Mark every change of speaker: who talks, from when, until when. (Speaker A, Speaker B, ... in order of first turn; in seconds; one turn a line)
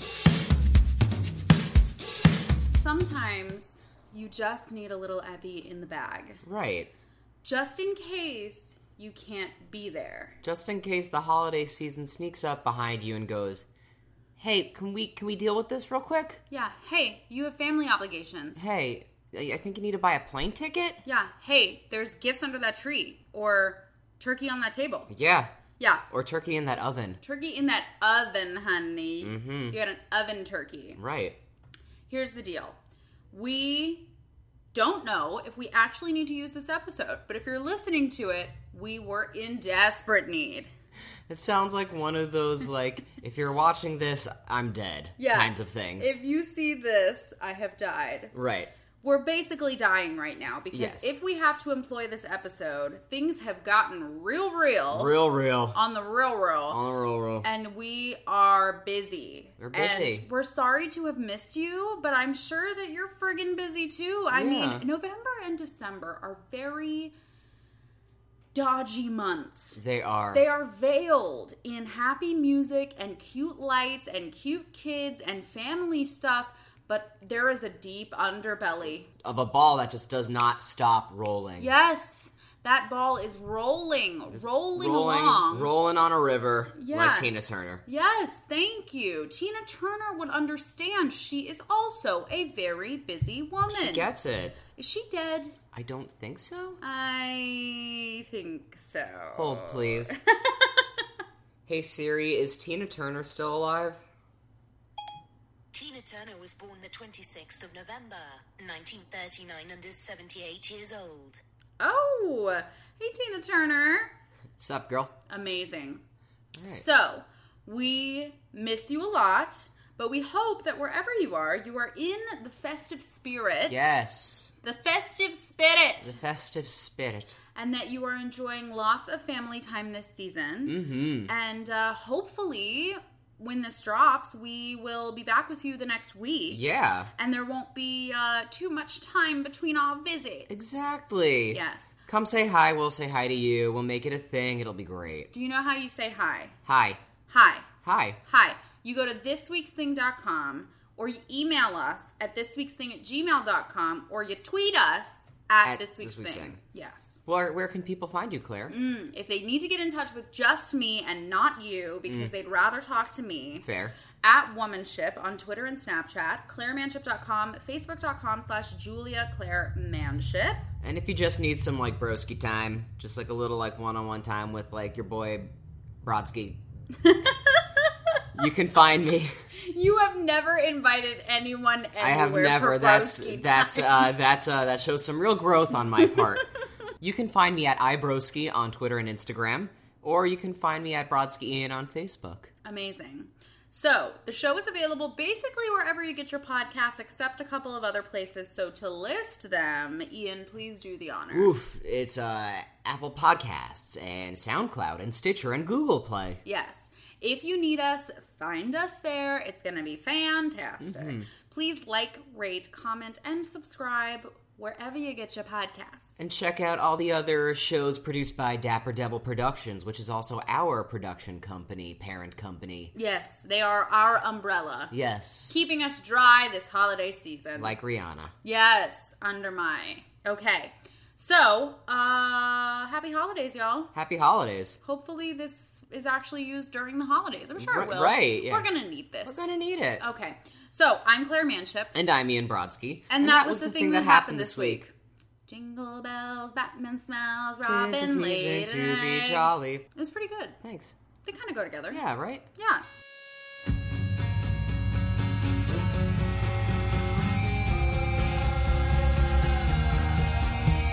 Speaker A: 2.7-6.4
Speaker B: 6.5-6.9
Speaker A: 7.4-10.4
Speaker B: 10.4-13.7
Speaker B: 14.4-16.4
Speaker A: 16.5-18.6
Speaker B: 18.6-21.0
Speaker A: 21.1-25.1
Speaker B: 25.1-25.5
Speaker A: 25.8-26.1
Speaker B: 26.1-27.2
Speaker A: 27.2-31.0
Speaker B: 29.2-29.8
Speaker B: 31.0-31.4
Speaker A: 32.1-32.8
Speaker A: 33.3-34.1
Speaker A: 34.7-40.7
Speaker B: 41.3-46.2
Speaker A: 45.2-48.3
Speaker B: 48.3-48.7
Speaker A: 49.0-55.2
Speaker B: 50.7-51.2
Speaker B: 54.9-55.8
Speaker A: 55.7-56.8
Speaker B: 56.7-57.5
Speaker A: 57.4-67.1
Speaker B: 59.6-60.3
Speaker B: 64.3-64.9
Speaker A: 68.5-69.8
Speaker B: 69.8-70.4
Speaker A: 70.3-79.1
Speaker B: 79.2-81.7
Speaker A: 81.6-85.7
Speaker B: 84.3-87.8
Speaker A: 86.8-87.3
Speaker A: 87.9-94.1
Speaker B: 93.7-94.6
Speaker A: 94.8-95.6
Speaker B: 95.7-96.8
Speaker A: 96.8-101.0
Speaker B: 99.3-100.2
Speaker B: 101.7-104.0
Speaker C: 105.7-111.4
Speaker A: 111.8-114.1
Speaker B: 114.6-115.1
Speaker A: 115.3-116.0
Speaker B: 116.6-116.8
Speaker A: 116.7-124.0
Speaker B: 123.7-124.5
Speaker A: 124.6-126.2
Speaker B: 126.0-127.4
Speaker A: 127.5-136.6
Speaker B: 130.7-131.3
Speaker B: 136.5-137.1
Speaker A: 137.2-140.6
Speaker B: 140.5-145.3
Speaker A: 141.5-142.0
Speaker A: 145.3-146.6
Speaker B: 146.7-147.0
Speaker A: 147.3-147.7
Speaker B: 147.8-148.2
Speaker A: 148.2-157.2
Speaker B: 155.6-156.6
Speaker B: 157.2-158.8
Speaker A: 158.7-163.7
Speaker B: 162.1-162.3
Speaker B: 163.6-163.9
Speaker A: 164.2-170.7
Speaker B: 170.8-175.5
Speaker B: 176.0-176.6
Speaker A: 177.0-177.9
Speaker B: 178.3-179.3
Speaker A: 179.6-184.1
Speaker B: 182.0-186.5
Speaker B: 187.0-192.5
Speaker A: 192.6-201.7
Speaker B: 201.3-206.4
Speaker A: 206.4-216.1
Speaker B: 210.8-211.3
Speaker B: 216.2-222.9
Speaker A: 222.9-224.9
Speaker B: 224.9-225.6
Speaker A: 225.5-227.8
Speaker B: 227.6-228.3
Speaker A: 228.4-233.9
Speaker B: 233.9-234.8
Speaker A: 234.8-242.0
Speaker B: 237.6-238.7
Speaker B: 239.2-240.0
Speaker B: 241.9-244.9
Speaker A: 243.1-244.9
Speaker A: 245.5-250.6
Speaker B: 247.6-249.9
Speaker B: 250.6-250.9
Speaker A: 251.2-252.0
Speaker B: 251.9-252.4
Speaker A: 252.5-252.8